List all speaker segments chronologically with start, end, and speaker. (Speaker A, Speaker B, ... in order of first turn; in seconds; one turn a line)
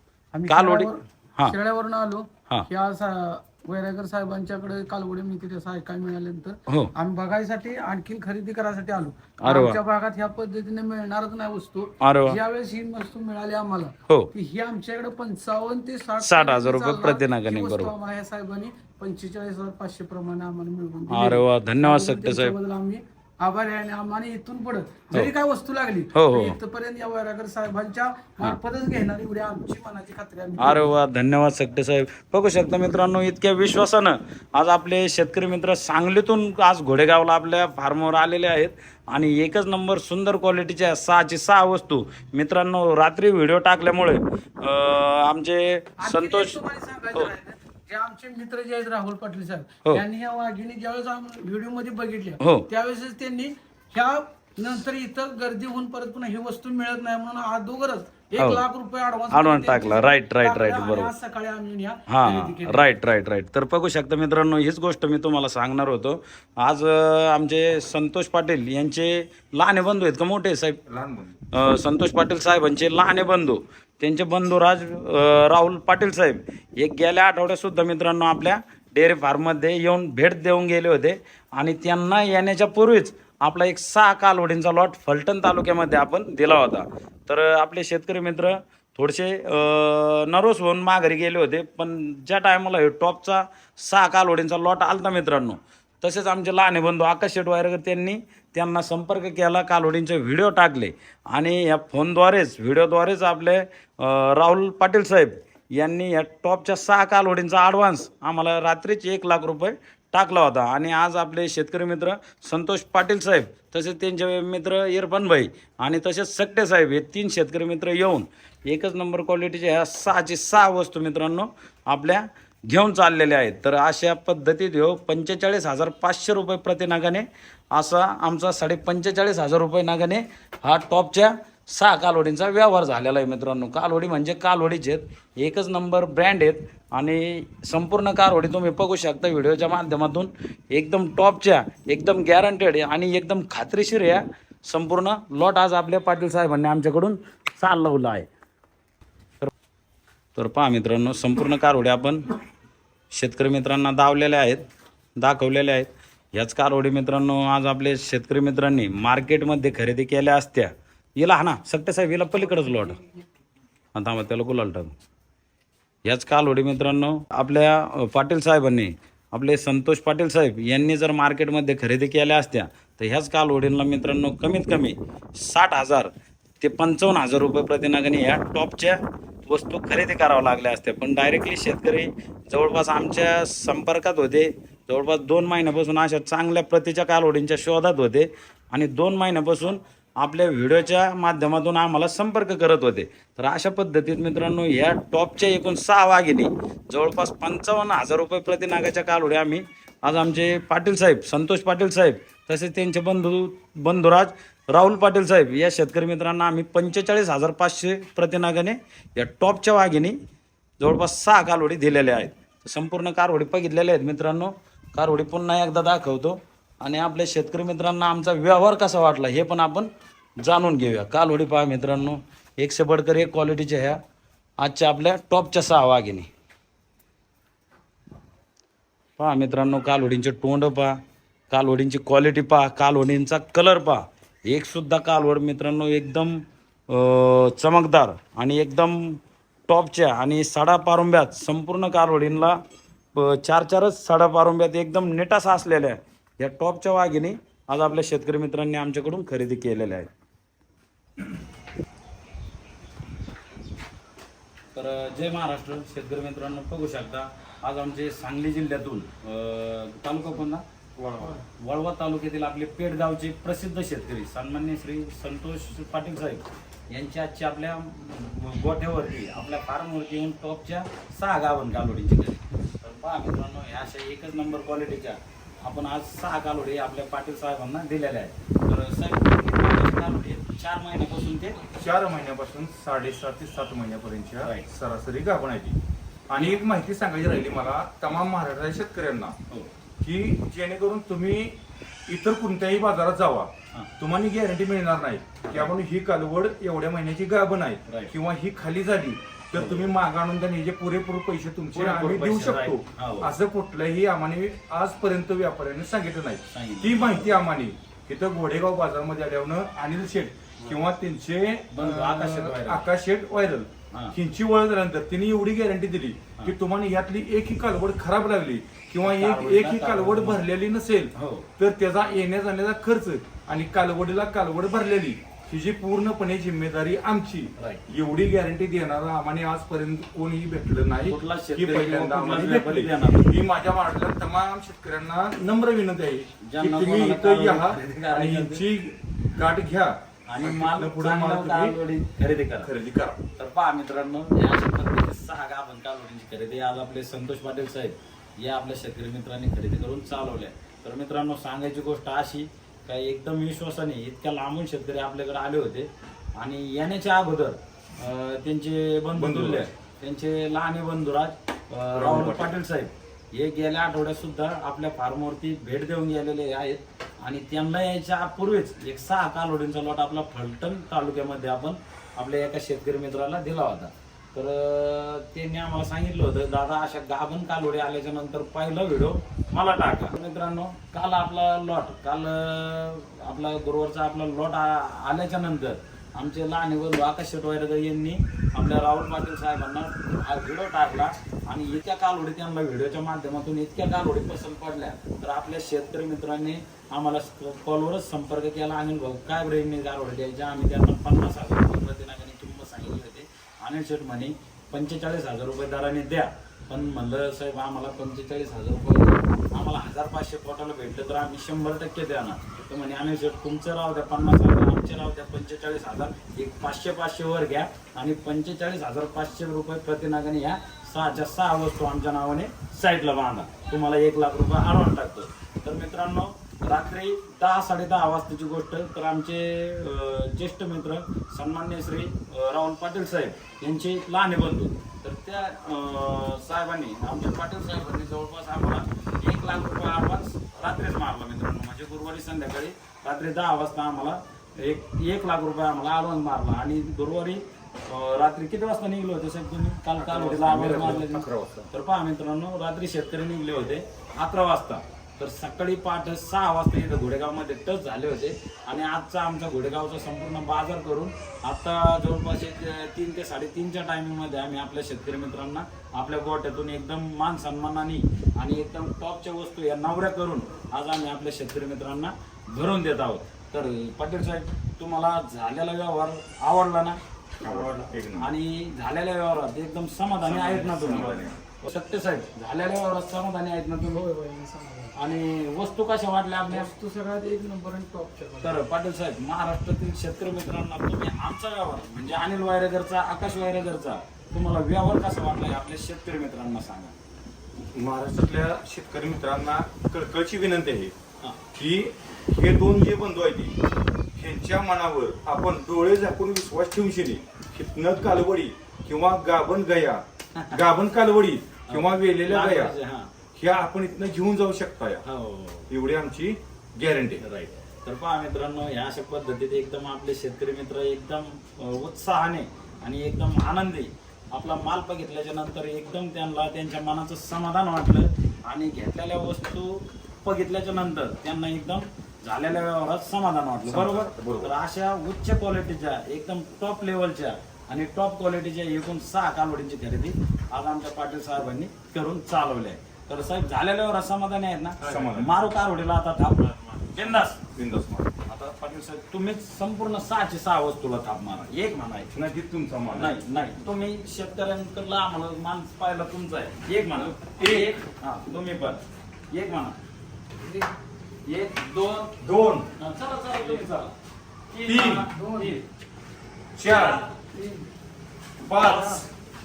Speaker A: 0.3-30.9
Speaker B: 0.5-1.6
Speaker B: 6.7-6.9
Speaker B: 9.4-9.8
Speaker B: 12.0-12.4
Speaker B: 16.2-17.9
Speaker B: 21.1-22.6
Speaker B: 26.1-26.6
Speaker B: 30.6-46.6
Speaker A: 46.0-62.9
Speaker B: 52.4-52.7
Speaker B: 58.4-58.6
Speaker B: 59.3-61.1
Speaker B: 62.1-70.8
Speaker C: 70.9-71.4
Speaker B: 71.5-148.3
Speaker B: 150.3-152.2
Speaker B: 153.1-154.6
Speaker B: 155.2-163.0
Speaker B: 163.9-164.9
Speaker B: 166.1-210.2
Speaker B: 210.8-219.9
Speaker B: 220.4-224.0
Speaker B: 224.6-226.3
Speaker B: 229.2-231.0
Speaker B: 231.5-242.6
Speaker B: 243.1-250.1
Speaker B: 254.7-260.6
Speaker C: 261.0-261.4
Speaker B: 261.6-281.6
Speaker C: 281.8-285.8
Speaker B: 284.4-284.7
Speaker C: 286.3-289.4
Speaker C: 290.0-341.8
Speaker B: 297.9-298.1
Speaker B: 299.5-299.9
Speaker B: 301.7-303.3
Speaker B: 306.5-307.3
Speaker B: 311.7-312.9
Speaker B: 319.0-320.4
Speaker B: 321.1-321.5
Speaker B: 327.6-327.8
Speaker B: 331.1-333.3
Speaker B: 336.4-338.6
Speaker B: 340.3-342.7
Speaker C: 342.6-343.2
Speaker B: 343.4-484.1
Speaker C: 359.1-359.7
Speaker C: 361.9-362.5
Speaker C: 450.0-451.7
Speaker C: 477.4-478.3
Speaker C: 480.2-481.4
Speaker A: 483.9-484.9
Speaker B: 484.9-486.7
Speaker A: 486.5-488.6
Speaker B: 488.4-496.9
Speaker C: 497.7-500.9
Speaker C: 501.5-503.6
Speaker C: 504.1-512.7
Speaker B: 510.3-510.6
Speaker B: 511.7-513.1
Speaker C: 513.3-515.0
Speaker B: 515.0-515.7
Speaker C: 515.7-517.3
Speaker B: 517.2-547.4
Speaker C: 533.6-534.5
Speaker C: 544.8-545.3
Speaker C: 547.4-548.1
Speaker B: 548.2-552.1
Speaker C: 552.1-553.2
Speaker B: 552.9-559.8
Speaker C: 557.0-557.7
Speaker B: 561.2-562.1
Speaker C: 562.2-562.7
Speaker B: 562.8-563.9
Speaker B: 564.5-565.6
Speaker C: 564.6-565.1
Speaker A: 565.1-565.6
Speaker C: 566.5-567.0
Speaker B: 566.6-567.1
Speaker A: 567.3-567.7
Speaker C: 568.4-569.0
Speaker B: 568.5-569.0